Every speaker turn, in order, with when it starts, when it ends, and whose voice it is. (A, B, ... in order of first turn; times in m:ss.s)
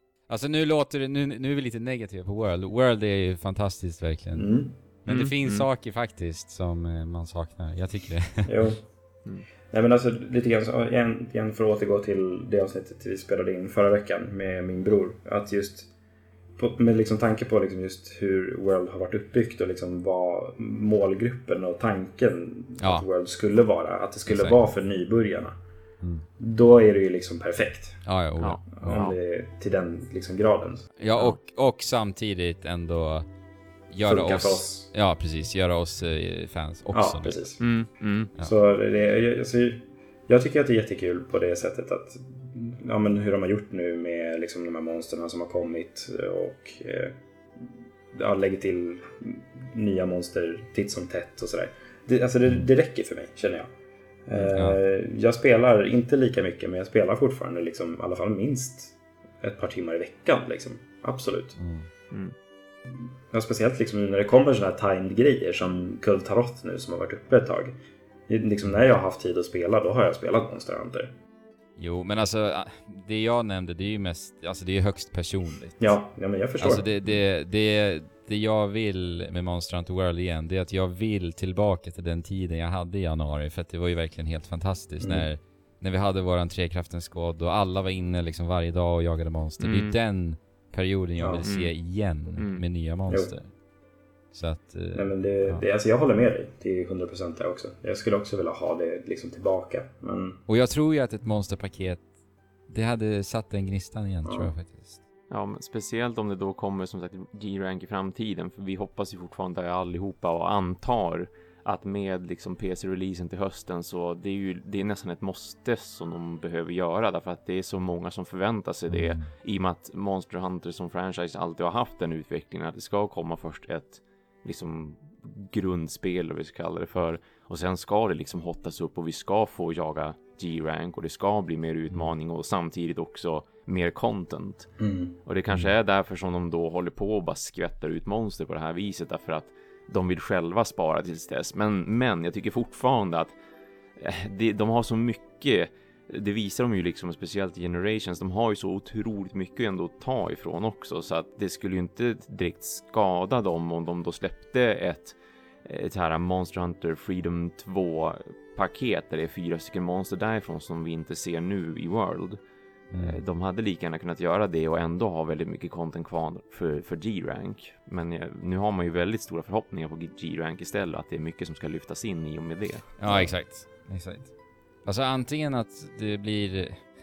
0:00.3-0:04.5 A
0:04.3-0:04.8 B
0:05.0-0:08.5 A
0:05.1-0:05.7 C
0:08.4-0:08.8 B
0:09.7-0:15.9 B
0:16.6-0:25.5 B
0:22.8-0:23.1 A
0:24.3-0:24.6 A
0:26.4-0:28.0 B
0:28.0-0:29.1 A
0:28.4-0:29.2 C
0:28.7-0:30.9 B
0:31.0-0:33.3 A
0:31.1-0:31.4 C
0:33.9-0:37.5 A
0:34.0-0:34.9 B
0:36.9-0:37.6 B
0:37.6-0:38.3 C
0:38.4-0:47.2 B
0:48.1-0:53.7 B
0:54.3-1:01.6 B
0:54.4-0:54.8 A
1:01.6-1:01.9 A
1:03.3-1:07.7 B
1:08.3-1:11.1 B
1:11.8-1:15.9 A
1:15.8-1:16.9 B
1:16.6-1:33.5 A
1:25.0-1:25.3 B
1:29.6-1:30.0 C
1:31.2-1:31.4 B
1:31.4-1:31.7 C
1:32.4-1:32.6 C
1:33.1-1:33.3 B
1:34.3-1:35.6 A
1:34.9-1:40.4 B
1:40.5-1:42.0 A
1:42.7-1:45.0 A
1:44.2-1:44.5 B
1:45.3-2:14.7 C
1:58.9-1:59.3 A
2:14.8-2:15.2 B
2:15.2-2:23.3 C
2:24.0-2:42.4 C
2:42.9-2:43.2 A
2:43.0-2:53.0 C
2:53.0-2:54.3 A
2:53.0-2:53.3 B
2:54.8-2:56.8 A